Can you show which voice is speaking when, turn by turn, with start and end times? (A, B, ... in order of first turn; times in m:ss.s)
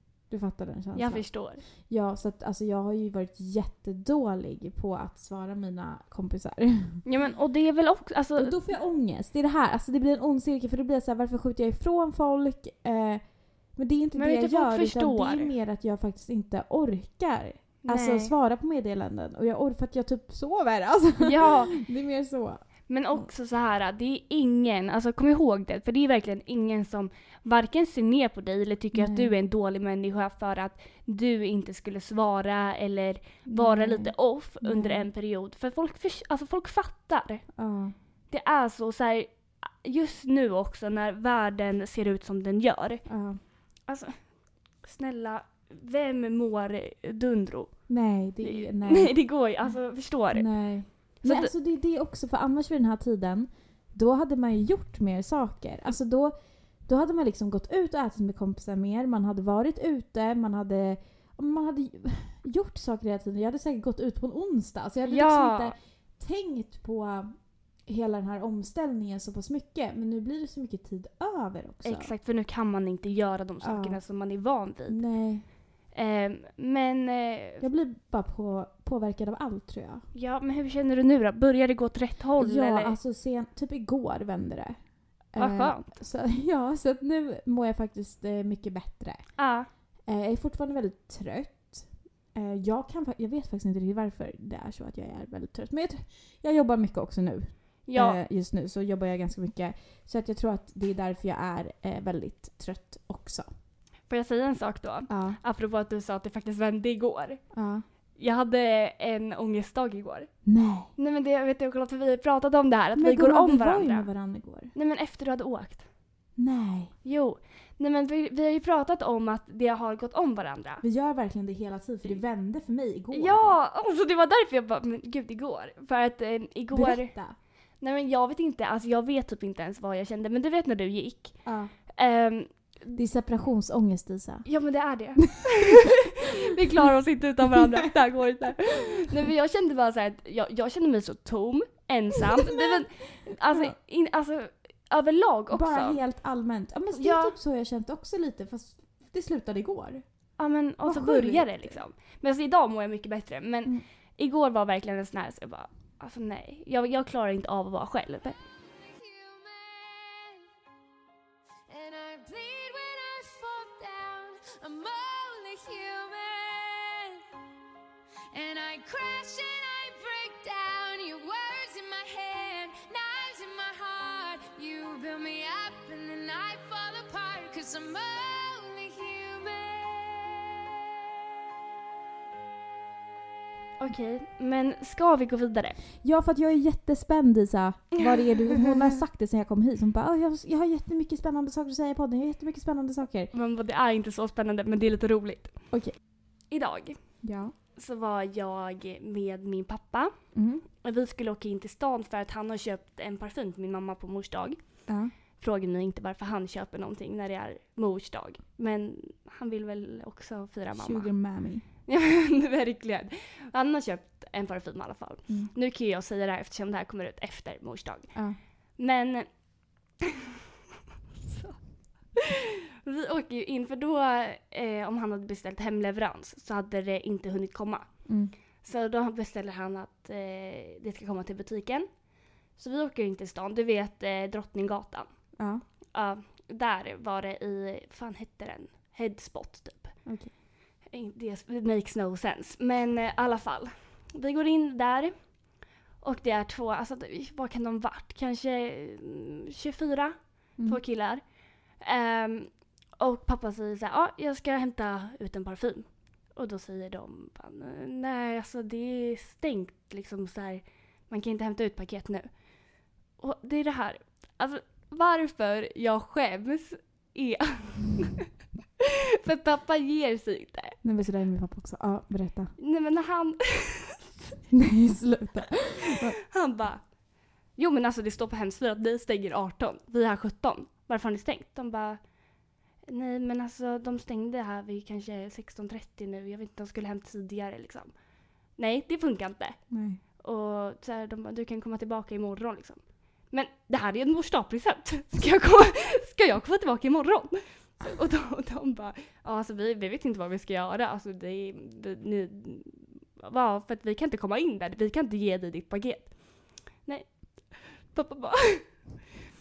0:00.3-0:01.3 A
0:01.0-0:01.6 B
0:01.8-0:07.0 A
0:07.0-0:08.6 B
0:08.4-0:13.2 A
0:13.8-0:22.6 A
0:14.2-0:15.5 B
0:17.8-0:18.3 B
0:21.2-0:21.8 B
0:22.9-0:37.4 B
0:29.0-0:29.3 A
0:33.5-0:35.1 A
0:37.6-0:37.9 A
0:38.3-0:43.0 B
0:43.1-0:43.4 A
0:43.9-0:44.2 B
0:44.8-0:47.7 B
0:47.9-0:49.1 A
0:48.4-0:50.5 B
0:50.3-0:56.3 A
0:51.2-0:51.5 B
0:56.9-1:07.3 A
1:05.1-1:05.7 B
1:07.9-1:12.1 A
1:11.8-1:15.0 B
1:13.6-1:14.0 A
1:14.9-1:15.4 A
1:15.9-1:17.7 B
1:17.6-1:20.0 A
1:20.1-1:23.0 B
1:22.4-1:24.8 A
1:25.3-1:29.2 A
1:25.4-1:25.9 B
1:29.4-1:29.7 B
1:30.1-1:43.5 A
1:37.9-1:38.2 B
1:44.1-1:47.4 B
1:45.1-1:45.4 A
1:47.5-1:47.8 A
1:48.2-1:50.3 B
1:50.5-1:50.9 A
1:51.0-1:54.1 B
1:53.0-1:54.7 A
1:54.8-1:55.9 B
1:56.4-1:56.9 A
1:57.0-2:00.8 B
2:00.8-2:03.6 A
2:03.1-2:07.1 B
2:06.7-2:07.4 A
2:07.8-2:11.4 B
2:11.4-2:11.7 A
2:12.0-2:13.0 B
2:13.0-2:14.5 A
2:14.5-2:26.0 B
2:15.2-2:15.9 A
2:17.5-2:17.9 A
2:22.4-2:22.8 A
2:25.5-2:30.0 A
2:27.0-2:27.3 B
2:30.4-2:38.4 B
2:30.8-2:31.8 A
2:38.6-2:40.5 C
2:41.7-2:47.3 C
2:48.3-3:00.7 C
3:03.8-3:05.8 B
3:06.0-3:13.3 A
3:08.0-3:08.6 B
3:13.3-3:15.5 B
3:16.5-3:17.0 B
3:17.2-3:17.5 A
3:17.8-3:20.1 B
3:20.4-3:20.6 A
3:20.8-3:24.6 B
3:25.4-3:31.1 B
3:30.8-3:31.6 A
3:31.9-3:38.1 B
3:38.8-3:39.3 B
3:41.3-3:41.6 B
3:42.2-3:47.9 B
3:48.1-3:48.3 A
3:48.6-3:51.9 B
3:52.6-3:55.1 B
3:55.4-3:55.6 A
3:55.9-3:59.9 B
4:00.1-4:00.3 A
4:00.9-4:05.2 B
4:06.0-4:11.2 B
4:11.8-4:22.3 B
4:23.2-4:28.3 B
4:28.8-4:30.8 B
4:30.8-4:32.5 A
4:32.6-4:34.4 B
4:34.5-4:36.2 A
4:36.0-4:36.8 B
4:37.6-4:42.0 B
4:42.9-4:47.9 B
4:48.6-4:49.6 B
4:49.7-4:50.0 A
4:50.2-5:06.1 B
5:07.9-5:08.7 B